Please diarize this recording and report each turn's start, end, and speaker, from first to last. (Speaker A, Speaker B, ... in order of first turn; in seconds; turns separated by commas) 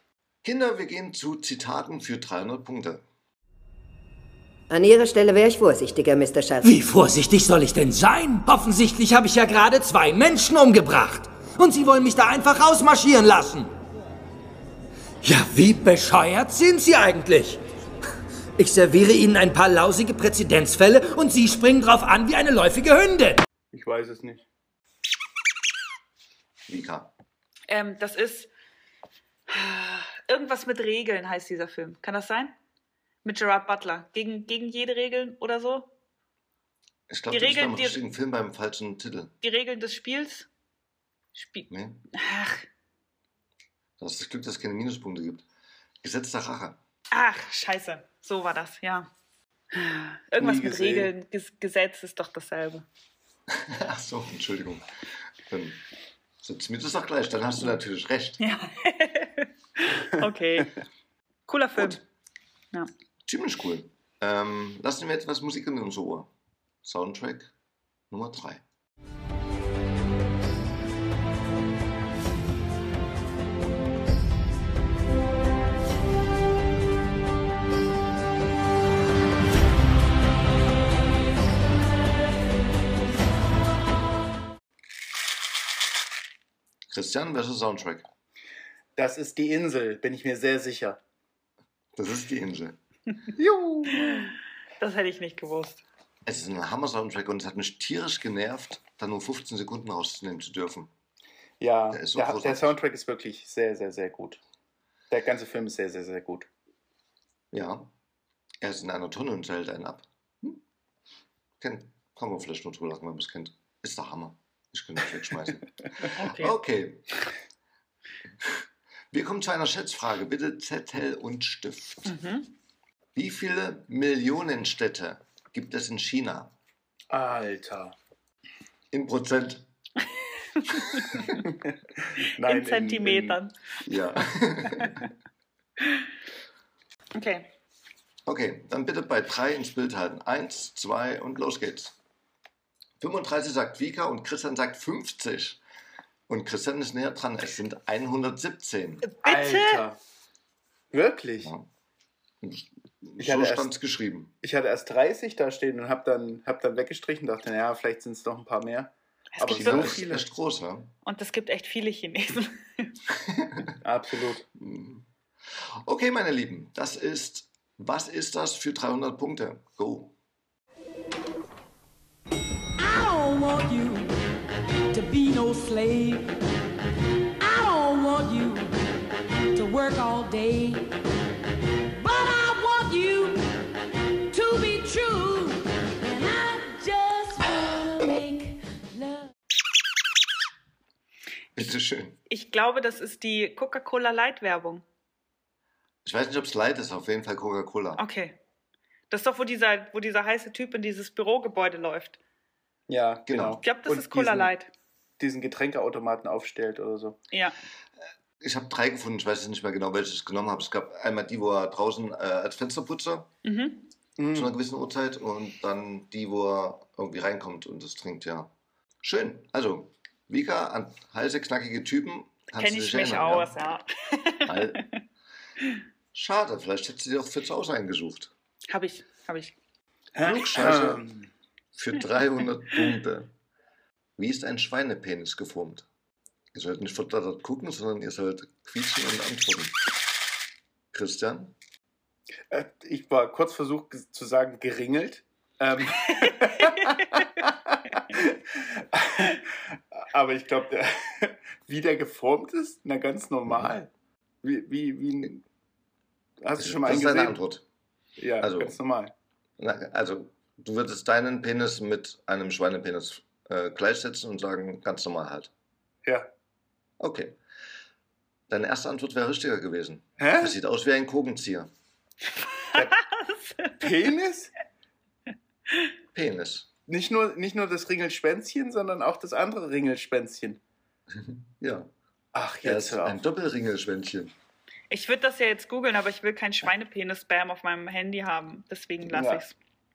Speaker A: 0.4-3.0, Speaker B: 4.7-6.7, Speaker C: 6.6-13.7, Speaker C: 15.2-17.6, Speaker C: 18.6-23.4, Speaker D: 23.7-24.4, Speaker A: 26.7-27.1, Speaker E: 27.7-28.5, Speaker E: 29.5-32.5, Speaker E: 33.2-35.9, Speaker A: 37.1-39.3, Speaker E: 37.3-38.0, Speaker E: 39.4-40.5, Speaker E: 41.4-42.6, Speaker A: 41.7-42.0, Speaker A: 44.0-45.5, Speaker A: 46.0-46.8, Speaker E: 47.1-49.1, Speaker E: 49.7-52.9, Speaker D: 50.4-51.1, Speaker A: 53.5-54.9, Speaker A: 55.5-55.8, Speaker A: 56.4-58.4, Speaker E: 58.4-60.7, Speaker E: 61.5-62.0, Speaker A: 61.8-62.0, Speaker A: 63.2-66.3, Speaker A: 66.8-67.5, Speaker A: 68.1-68.6, Speaker A: 86.9-88.1, Speaker D: 89.0-91.0, Speaker A: 91.9-92.8, Speaker D: 93.4-94.3, Speaker E: 94.0-95.8, Speaker A: 96.2-100.9, Speaker D: 101.6-104.4, Speaker A: 101.9-102.8, Speaker D: 105.1-106.5, Speaker A: 107.5-107.9, Speaker A: 108.6-110.6, Speaker A: 111.6-117.0, Speaker E: 116.1-116.5, Speaker A: 119.1-122.2, Speaker E: 122.0-122.5, Speaker A: 123.1-126.5, Speaker D: 127.1-127.9, Speaker A: 128.9-129.7, Speaker E: 130.6-131.3, Speaker D: 131.3-133.4, Speaker E: 132.4-133.6, Speaker A: 133.8-135.0, Speaker E: 134.2-135.1, Speaker E: 137.1-137.5, Speaker A: 138.2-142.0, Speaker A: 143.0-145.6, Speaker A: 146.3-149.0, Speaker E: 149.0-149.8, Speaker D: 149.2-150.0, Speaker D: 150.9-151.5, Speaker A: 152.4-154.3, Speaker D: 153.2-153.7, Speaker D: 154.4-160.2, Speaker E: 159.3-160.0, Speaker A: 159.5-160.9, Speaker E: 161.0-162.9, Speaker A: 163.2-163.7, Speaker D: 163.8-164.4, Speaker A: 164.5-170.1, Speaker F: 172.8-174.1, Speaker F: 174.9-176.4, Speaker F: 177.4-178.8, Speaker F: 179.5-180.9, Speaker F: 181.9-183.7, Speaker F: 184.3-189.3, Speaker A: 191.5-192.2, Speaker E: 192.3-194.8, Speaker A: 196.0-198.0, Speaker E: 198.0-198.4, Speaker E: 199.1-202.2, Speaker D: 202.9-204.5, Speaker A: 203.3-203.6, Speaker E: 203.6-204.7, Speaker D: 205.2-207.2, Speaker A: 208.4-213.3, Speaker E: 213.4-213.9, Speaker D: 214.2-214.5, Speaker A: 214.3-223.6, Speaker E: 222.6-225.0, Speaker A: 224.5-224.9, Speaker A: 226.1-228.3, Speaker E: 228.7-229.5, Speaker D: 230.2-231.3, Speaker A: 230.2-231.0, Speaker A: 231.8-233.3, Speaker A: 234.2-235.9, Speaker A: 236.5-239.8, Speaker A: 240.9-241.5, Speaker D: 242.5-253.9, Speaker A: 253.5-253.7, Speaker D: 254.4-255.4, Speaker D: 256.4-257.4, Speaker A: 256.6-257.6, Speaker D: 258.2-259.1, Speaker A: 258.4-258.8, Speaker A: 259.6-265.5, Speaker A: 267.0-267.4, Speaker A: 268.5-271.7, Speaker D: 270.2-270.5, Speaker E: 272.7-273.8, Speaker D: 273.8-274.5, Speaker A: 276.1-276.7, Speaker D: 276.9-280.6, Speaker A: 281.1-281.9, Speaker D: 282.3-283.2, Speaker A: 282.6-284.3, Speaker E: 284.9-289.5, Speaker D: 289.0-289.4